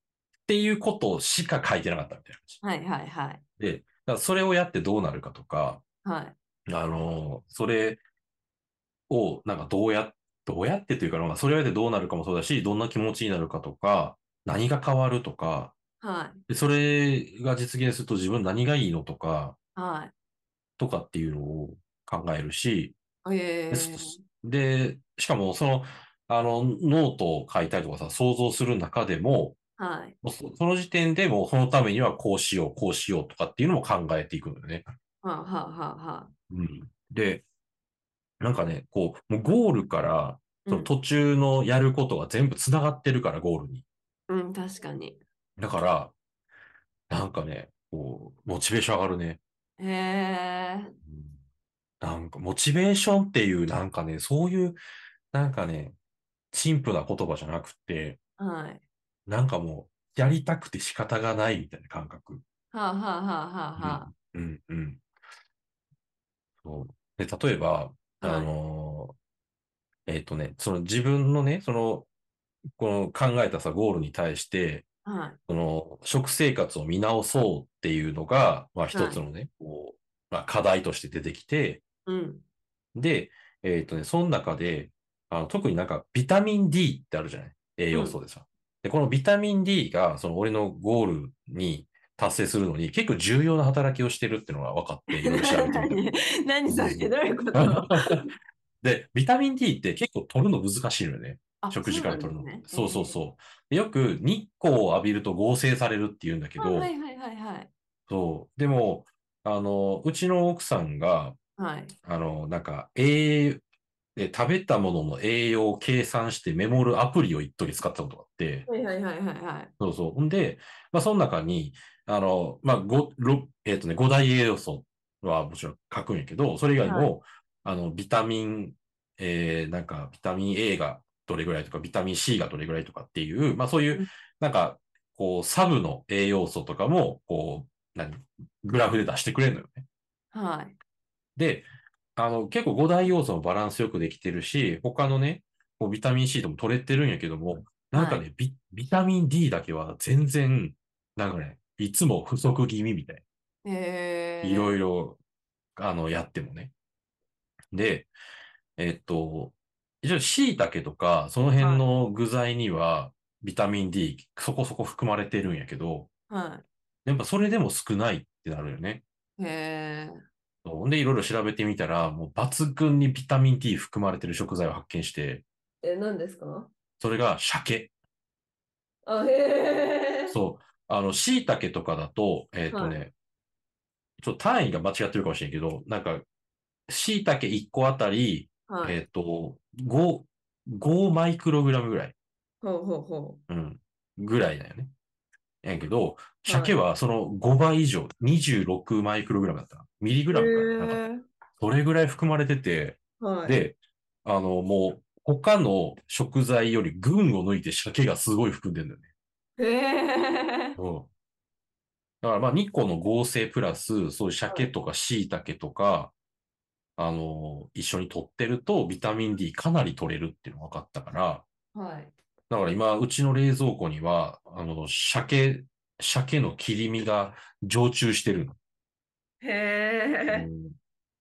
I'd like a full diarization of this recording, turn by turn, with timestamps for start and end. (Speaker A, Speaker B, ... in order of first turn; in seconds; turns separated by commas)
Speaker A: 0.5-2.6, Speaker B: 2.6-3.4, Speaker A: 3.6-5.8, Speaker B: 6.0-6.3, Speaker A: 6.7-8.0, Speaker A: 9.1-15.8, Speaker B: 16.0-16.4, Speaker A: 16.5-19.6, Speaker B: 19.8-20.1, Speaker A: 20.8-23.0, Speaker B: 23.2-24.2, Speaker A: 23.7-29.6, Speaker B: 29.8-30.1, Speaker A: 30.2-34.8, Speaker B: 35.2-36.3, Speaker A: 36.5-37.4, Speaker A: 38.4-43.8, Speaker B: 40.6-40.9, Speaker B: 44.3-45.2, Speaker A: 45.6-46.1, Speaker A: 47.1-49.4, Speaker B: 49.8-50.9, Speaker A: 51.0-51.4, Speaker A: 52.0-54.8, Speaker A: 55.3-56.0, Speaker A: 56.5-58.2, Speaker B: 58.4-58.8, Speaker A: 59.2-62.4, Speaker B: 62.7-64.1, Speaker A: 63.8-65.0, Speaker A: 66.6-69.1, Speaker B: 68.2-68.5, Speaker A: 70.1-72.1, Speaker A: 72.8-74.9, Speaker B: 75.0-75.4, Speaker A: 75.5-81.8, Speaker B: 78.9-79.2, Speaker B: 82.1-82.4, Speaker A: 82.9-96.0, Speaker B: 87.9-88.2, Speaker B: 95.1-98.3, Speaker A: 96.7-98.2, Speaker A: 98.8-106.9, Speaker B: 101.6-103.2, Speaker B: 106.6-107.7, Speaker A: 108.1-111.4, Speaker B: 111.6-111.9, Speaker A: 112.0-113.6, Speaker A: 114.2-118.7, Speaker B: 118.7-119.7, Speaker A: 119.8-139.8, Speaker B: 126.8-127.1, Speaker B: 140.3-140.7, Speaker A: 141.4-153.2, Speaker B: 147.9-148.2, Speaker B: 153.6-154.8, Speaker A: 154.4-155.2, Speaker A: 155.8-156.7, Speaker A: 157.7-158.1, Speaker A: 158.8-166.1, Speaker B: 161.6-161.9, Speaker B: 166.3-166.7, Speaker A: 167.1-169.0, Speaker B: 169.4-170.2, Speaker A: 170.6-175.4, Speaker B: 175.8-176.7, Speaker A: 177.0-177.9, Speaker B: 179.1-180.4, Speaker A: 180.3-183.1, Speaker B: 182.7-183.0, Speaker A: 184.2-186.2, Speaker A: 186.9-192.1, Speaker B: 188.7-189.0, Speaker B: 192.6-193.4, Speaker A: 193.5-194.9, Speaker A: 195.6-201.0, Speaker B: 196.4-196.8, Speaker B: 200.3-201.2, Speaker A: 201.6-209.1, Speaker B: 203.2-203.6, Speaker B: 209.6-210.8, Speaker A: 210.8-211.1, Speaker A: 212.2-216.1, Speaker A: 217.0-221.4, Speaker B: 221.7-222.1, Speaker A: 222.5-228.6, Speaker B: 229.4-230.5, Speaker A: 230.3-230.7